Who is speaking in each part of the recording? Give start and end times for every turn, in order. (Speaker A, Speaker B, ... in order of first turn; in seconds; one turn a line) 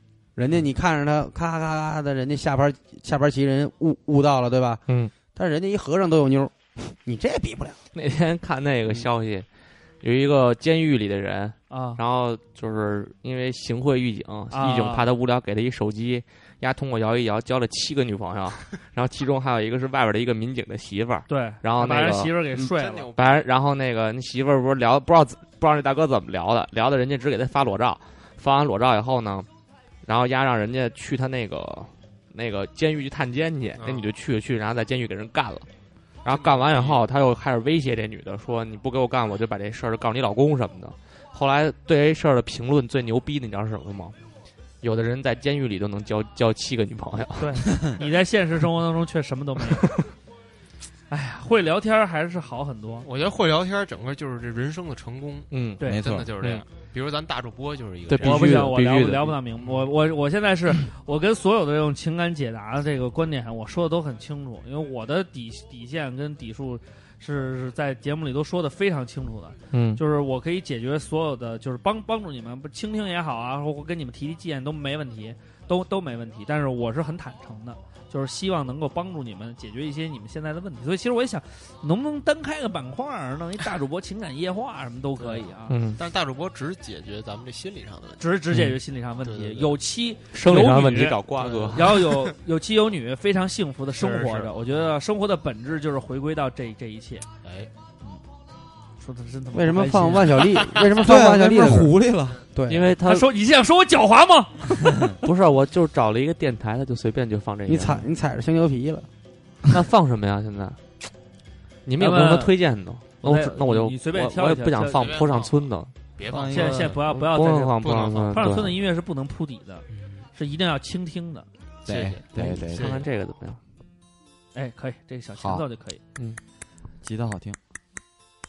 Speaker A: 0.3-4.8
Speaker A: 5.3-7.8
Speaker B: 7.9-9.4
Speaker B: 10.0-29.5
Speaker C: 11.7-12.0
Speaker C: 14.5-15.1
Speaker C: 21.3-23.1
Speaker D: 22.6-23.5
Speaker B: 30.0-35.7
Speaker D: 33.8-34.1
Speaker B: 36.2-44.1
Speaker D: 36.3-37.0
Speaker B: 44.8-47.8
Speaker C: 47.4-49.9
Speaker C: 51.1-53.1
Speaker D: 53.0-58.6
Speaker B: 55.5-55.8
Speaker E: 55.8-56.3
Speaker B: 56.4-56.6
Speaker B: 58.1-59.3
Speaker C: 58.2-85.8
Speaker B: 69.7-70.0
Speaker D: 85.2-88.2
Speaker B: 85.7-86.0
Speaker C: 88.2-97.2
Speaker B: 88.5-88.8
Speaker D: 89.2-89.8
Speaker B: 90.3-92.0
Speaker D: 91.3-92.3
Speaker D: 93.9-94.9
Speaker D: 97.4-97.7
Speaker C: 99.0-100.5
Speaker A: 99.5-101.9
Speaker E: 101.0-102.4
Speaker A: 102.5-102.9
Speaker B: 102.7-103.3
Speaker C: 103.0-105.1
Speaker B: 105.2-108.1
Speaker A: 107.7-109.1
Speaker B: 109.7-110.8
Speaker B: 111.8-116.0
Speaker C: 112.0-112.5
Speaker C: 113.2-115.2
Speaker D: 114.9-117.0
Speaker E: 116.3-116.8
Speaker C: 116.5-121.5
Speaker B: 116.6-118.8
Speaker D: 117.8-118.6
Speaker D: 119.9-120.2
Speaker D: 121.8-123.0
Speaker E: 121.8-123.0
Speaker B: 122.3-123.6
Speaker C: 124.5-126.0
Speaker E: 125.4-125.6
Speaker E: 127.0-127.6